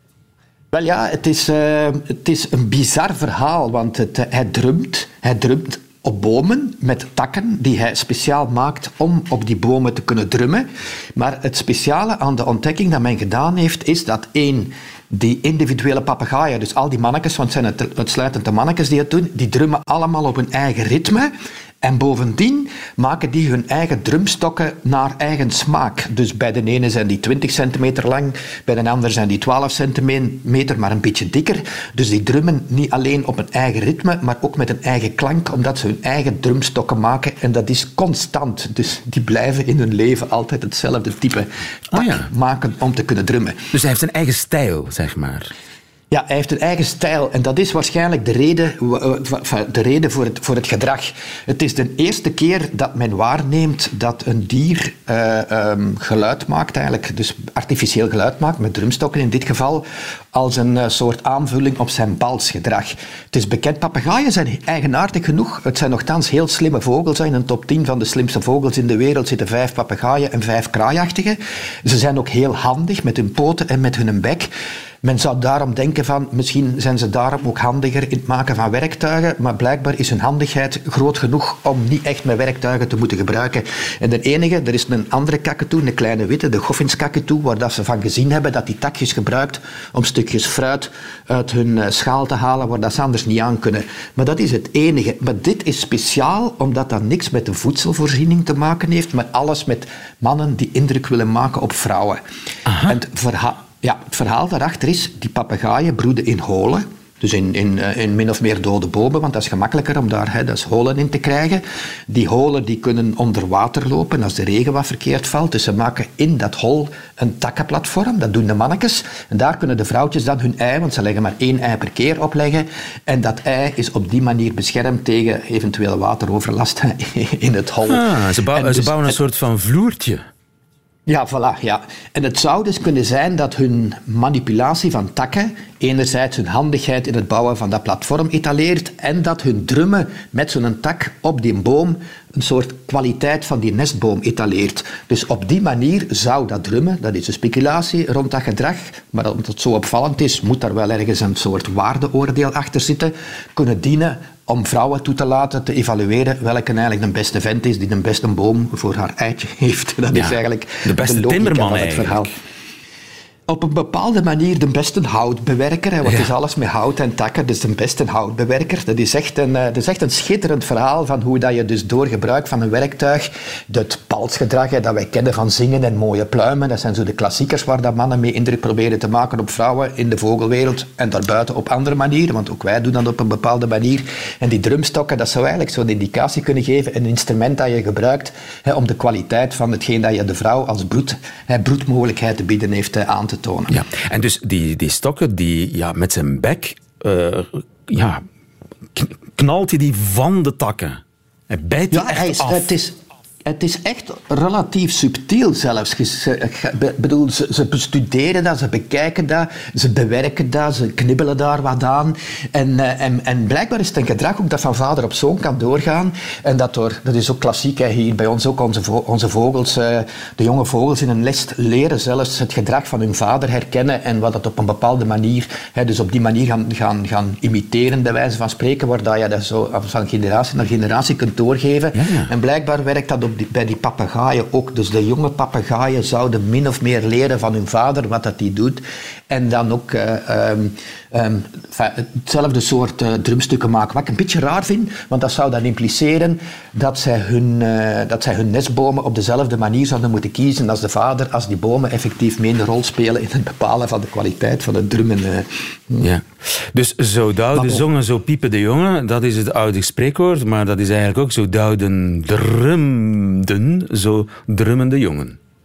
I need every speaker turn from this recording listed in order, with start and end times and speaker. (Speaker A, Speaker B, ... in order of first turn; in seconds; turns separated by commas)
Speaker A: 0.7-43.6, Speaker B: 41.9-42.3, Speaker B: 43.7-45.5, Speaker A: 46.1-74.5, Speaker A: 75.0-102.2, Speaker B: 102.7-102.9, Speaker A: 102.8-129.2, Speaker B: 127.8-130.2, Speaker A: 131.1-162.3, Speaker B: 160.1-162.3, Speaker A: 163.5-193.8, Speaker B: 166.0-166.3, Speaker B: 193.7-198.2, Speaker B: 198.9-202.7, Speaker A: 201.9-202.9, Speaker A: 203.4-256.1, Speaker B: 231.9-232.3, Speaker B: 256.0-265.4, Speaker A: 257.6-257.8